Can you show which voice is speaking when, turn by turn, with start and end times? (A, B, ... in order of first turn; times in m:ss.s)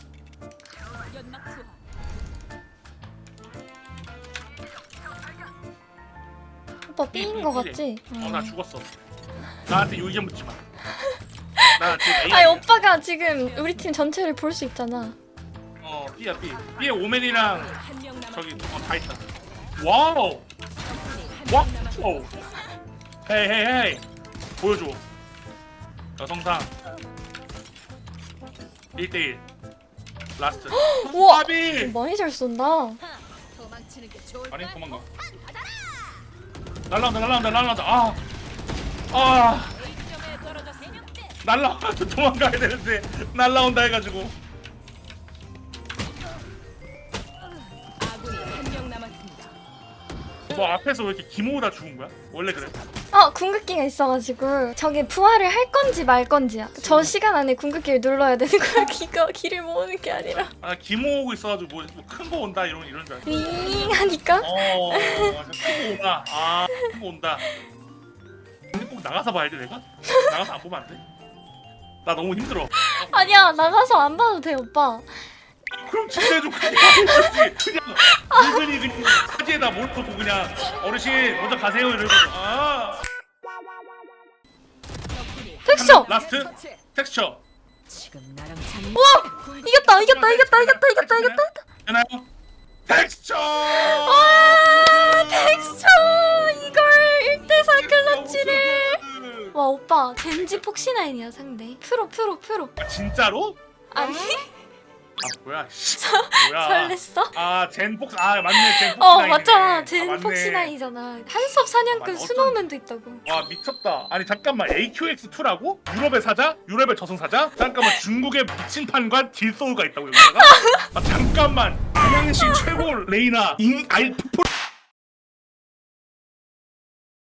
0:06.9-0:08.5 A
0:07.1-0:08.9 B
0:09.7-0:10.6 B
0:11.0-0:15.2 A
0:11.8-0:12.7 B
0:15.8-0:19.2 B
0:19.8-0:20.4 B
0:21.5-0:22.3 B
0:23.2-0:24.0 B
0:24.6-0:25.0 B
0:26.2-0:26.7 B
0:29.0-0:29.4 B
0:30.4-0:32.0 B
0:30.7-0:33.0 A
0:33.7-0:34.5 C
0:34.5-0:35.1 B
0:36.9-0:38.2 B
0:39.1-0:39.8 B
0:40.4-0:41.0 C
0:41.4-0:44.4 B
0:48.3-0:49.2 C
0:50.5-0:52.8 B
0:53.1-1:00.5 A
0:56.8-0:57.1 B
1:00.2-1:03.3 B
1:03.2-1:05.8 A
1:04.4-1:07.4 B
1:08.7-1:11.0 B
1:10.1-1:10.3 A
1:12.0-1:13.5 B
1:12.8-1:15.1 A
1:15.7-1:23.0 B
1:16.2-1:17.5 A
1:18.1-1:19.2 A
1:25.6-1:26.1 A
1:25.7-1:27.4 B
1:28.0-1:28.8 C
1:28.9-1:31.6 A
1:29.8-1:32.3 B
1:32.9-1:35.6 B
1:33.6-1:39.0 A
1:37.6-1:39.6 B
1:39.5-1:42.7 A
1:42.8-1:43.6 B
1:43.9-1:44.5 A
1:45.2-1:50.7 B
1:46.0-1:47.3 A
1:48.5-1:53.2 A
1:51.9-1:52.7 B
1:53.2-2:04.5 B
2:00.2-2:00.8 A